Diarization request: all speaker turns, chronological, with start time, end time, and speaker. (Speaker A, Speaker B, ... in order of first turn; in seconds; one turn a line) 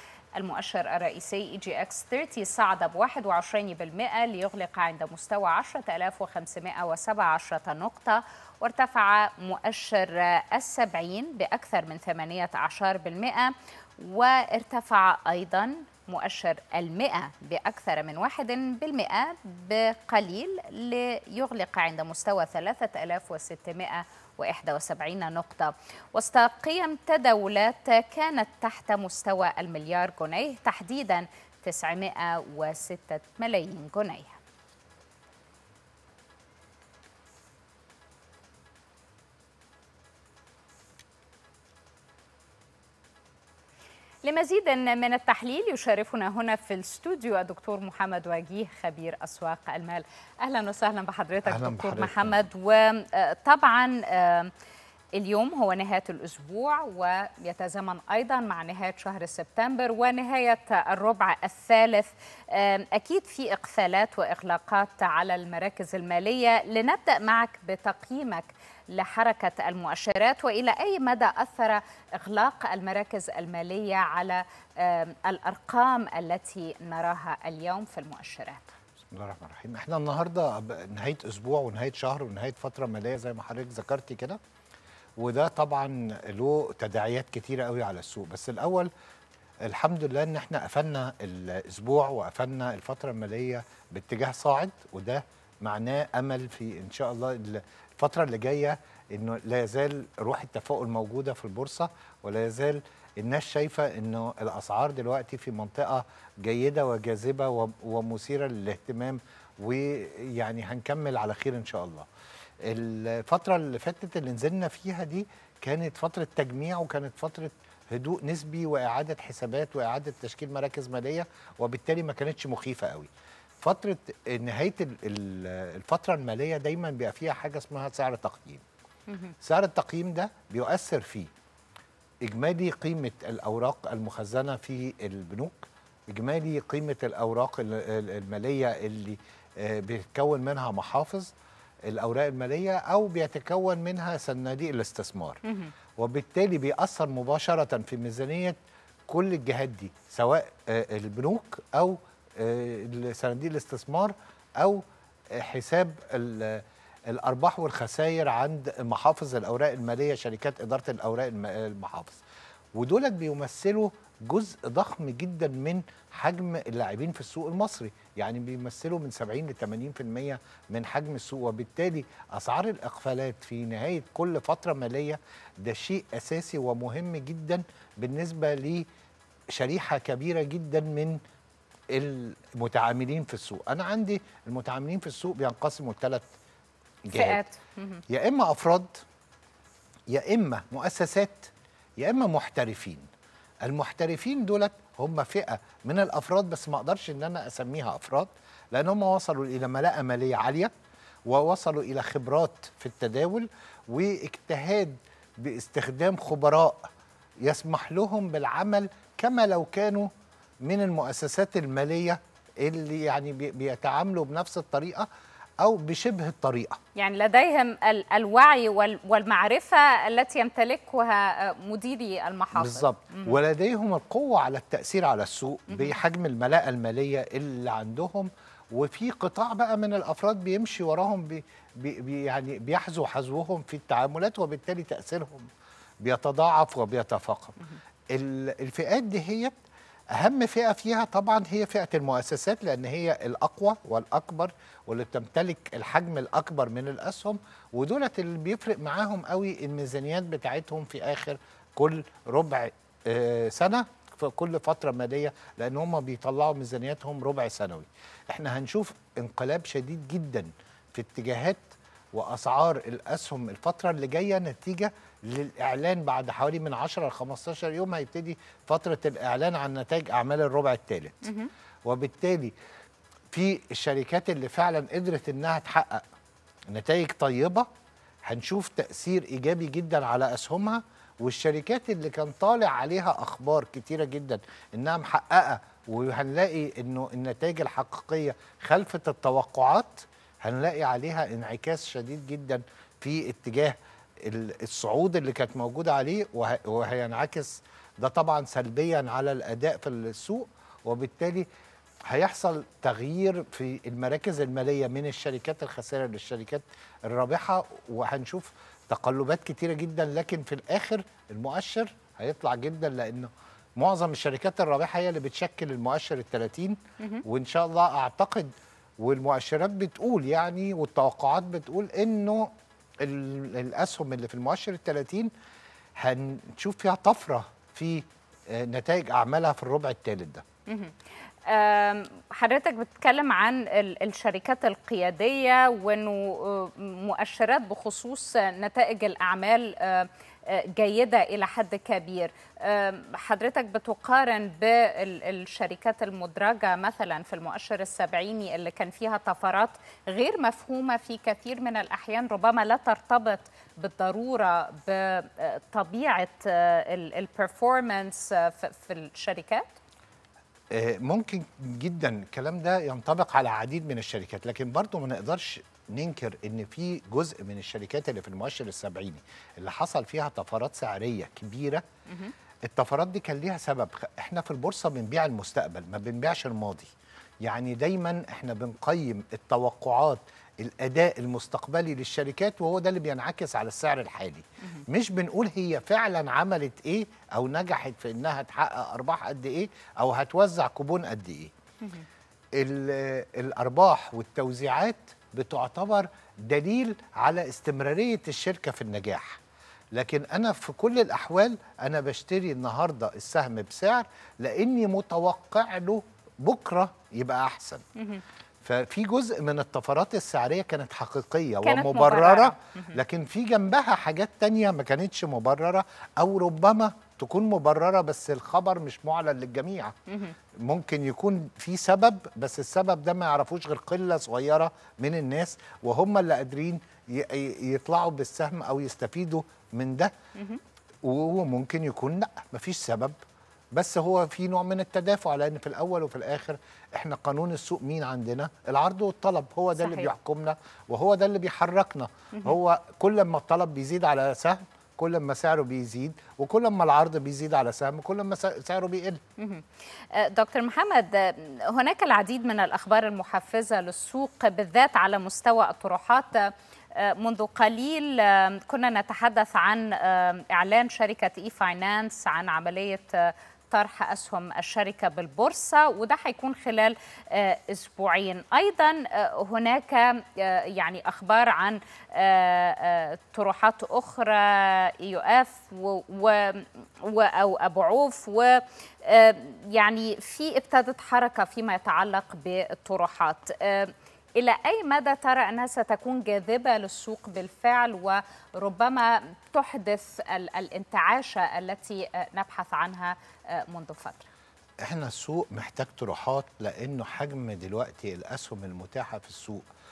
Speaker A: 0.3-34.4
Speaker A: 44.2-54.5
Speaker B: 51.4-52.4
Speaker A: 55.1-78.7
Speaker B: 79.1-84.4
Speaker B: 85.2-88.9
Speaker B: 89.6-112.1
Speaker B: 112.6-123.1
Speaker B: 123.6-128.6
Speaker A: 129.1-129.3
Speaker B: 129.4-131.3
Speaker B: 132.2-141.3
Speaker B: 141.8-145.4
Speaker A: 145.4-145.7
Speaker B: 146.0-148.6
Speaker B: 149.1-162.2
Speaker B: 162.8-178.8
Speaker B: 179.5-181.2
Speaker B: 181.9-186.3
Speaker B: 187.1-187.4
Speaker A: 187.1-188.0
Speaker B: 188.1-189.0
Speaker B: 190.1-193.1
Speaker B: 193.6-200.7
Speaker B: 201.3-206.9
Speaker B: 207.4-210.1
Speaker B: 210.6-215.1
Speaker B: 215.6-216.8
Speaker A: 217.0-223.4
Speaker B: 222.5-235.5
Speaker B: 236.0-237.6
Speaker B: 238.1-239.5
Speaker B: 240.1-271.2
Speaker A: 271.2-271.5
Speaker B: 271.9-272.5
Speaker B: 273.3-276.0
Speaker B: 276.7-277.7
Speaker B: 278.2-301.5
Speaker B: 302.1-325.3
Speaker B: 325.9-330.4
Speaker A: 330.7-330.9
Speaker A: 331.5-359.8
Speaker B: 360.7-371.8
Speaker A: 372.1-372.3
Speaker B: 372.6-376.9
Speaker B: 377.4-391.5
Speaker B: 392.6-399.4
Speaker B: 399.9-407.9
Speaker A: 408.0-408.2
Speaker B: 408.6-420.0
Speaker A: 411.6-412.9
Speaker A: 420.1-420.3
Speaker B: 420.6-430.1
Speaker B: 431.0-433.1
Speaker B: 433.7-449.2
Speaker A: 439.8-440.1
Speaker A: 449.4-494.3
Speaker B: 494.8-499.7